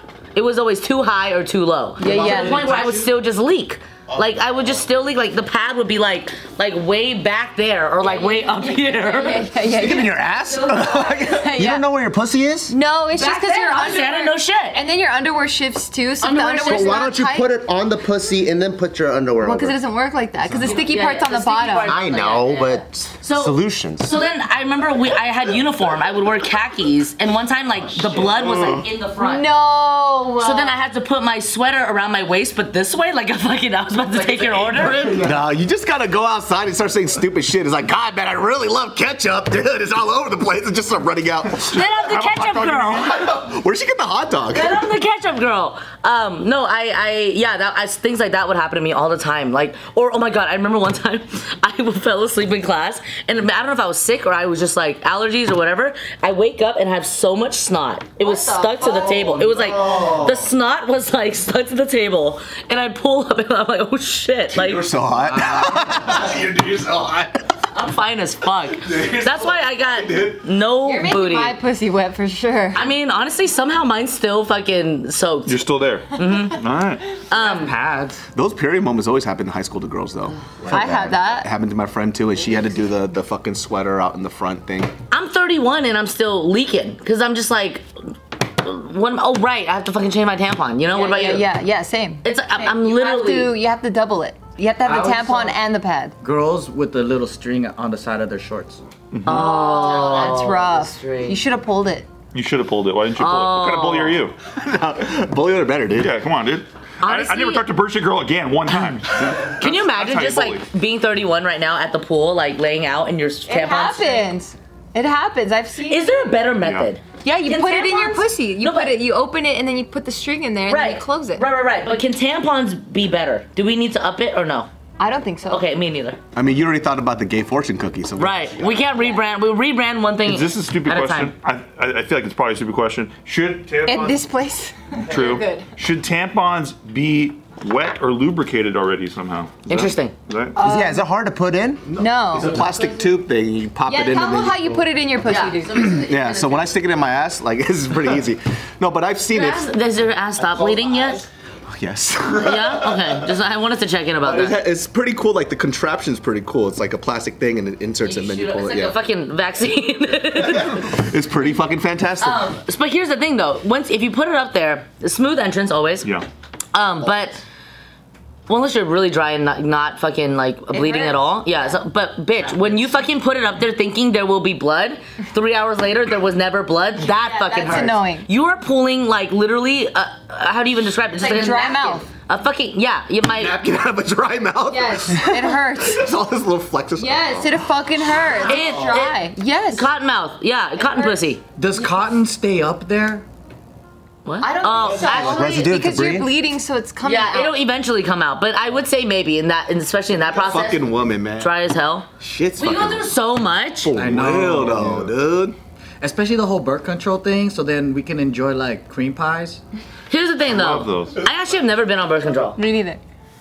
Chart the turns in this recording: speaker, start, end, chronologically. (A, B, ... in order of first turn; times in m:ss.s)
0:00.3-0:09.5 A
0:02.0-0:02.7 B
0:02.2-0:03.0 C
0:09.0-0:10.9 B
0:09.6-0:11.6 D
0:11.2-0:11.5 A
0:11.4-0:11.8 B
0:11.5-0:12.7 E
0:12.7-0:17.5 B
0:13.1-0:14.8 A
0:16.2-0:17.0 A
0:16.6-0:19.8 E
0:19.4-0:22.0 B
0:20.6-0:29.5 A
0:21.8-0:24.2 E
0:29.2-0:30.8 B
0:30.4-0:35.3 A
0:34.9-0:41.8 D
0:41.7-0:43.1 A
0:41.7-0:43.3 F
0:43.0-0:44.8 D
0:44.5-1:04.9 A
0:58.2-0:58.8 B
0:58.8-1:00.4 D
1:04.5-1:07.5 D
1:05.2-1:06.0 C
1:07.7-1:11.6 A
1:08.7-1:10.4 D
1:10.8-1:12.8 B
1:12.7-1:16.6 A
1:15.5-1:17.0 F
1:17.3-1:17.7 A
1:17.3-1:18.2 C
1:18.3-1:24.9 D
1:20.7-1:21.5 B
1:25.1-1:27.8 A
1:28.4-1:31.5 A
1:30.9-1:36.2 B
1:32.2-1:33.6 A
1:34.8-1:35.6 C
1:36.2-1:38.8 C
1:39.1-1:39.5 F
1:39.2-1:41.4 A
1:39.3-1:42.1 B
1:42.3-1:44.3 F
1:43.2-1:44.2 A
1:44.4-1:46.1 D
1:45.9-1:50.6 F
1:47.0-1:47.6 A
1:49.3-1:54.3 A
1:53.5-1:56.1 B
1:55.9-1:59.0 A
1:56.6-1:56.9 F
1:57.2-2:01.4 B
2:00.7-2:04.7 A
2:05.0-2:05.6 B
2:05.5-2:06.2 A
2:06.3-2:09.0 D
2:08.2-2:11.3 A
2:10.2-2:14.2 F
2:13.8-2:15.6 B
2:15.1-2:20.6 F
2:19.6-2:20.1 A
2:20.6-2:21.0 B
2:20.6-2:21.8 E
2:21.9-2:24.8 D
2:22.0-2:22.6 B
2:23.8-2:26.0 B
2:25.2-2:26.7 A
2:25.8-2:29.7 D
2:29.3-2:31.3 A
2:31.7-2:33.2 D
2:32.3-2:34.6 A
2:34.2-2:39.0 D
2:38.0-2:40.9 A
2:40.3-2:42.5 D
2:42.2-2:46.1 A
2:46.7-2:47.4 A
2:48.5-3:03.6 A
2:50.7-2:51.7 B
2:57.0-2:58.3 B
3:01.2-3:02.1 B
3:03.3-3:08.4 D
3:04.7-3:06.1 B
3:07.0-3:09.9 B
3:08.4-3:11.4 A
3:10.8-3:11.3 B
3:11.6-3:13.2 C
3:14.2-3:15.5 A
3:14.4-3:17.6 B
3:15.0-3:16.3 E
3:17.0-3:23.9 A
3:20.3-3:21.6 D
3:22.2-3:23.1 D
3:23.8-3:25.6 D
3:23.9-3:25.1 C
3:26.0-3:29.6 C
3:30.1-3:32.6 A
3:30.5-3:31.2 F
3:32.6-3:33.0 B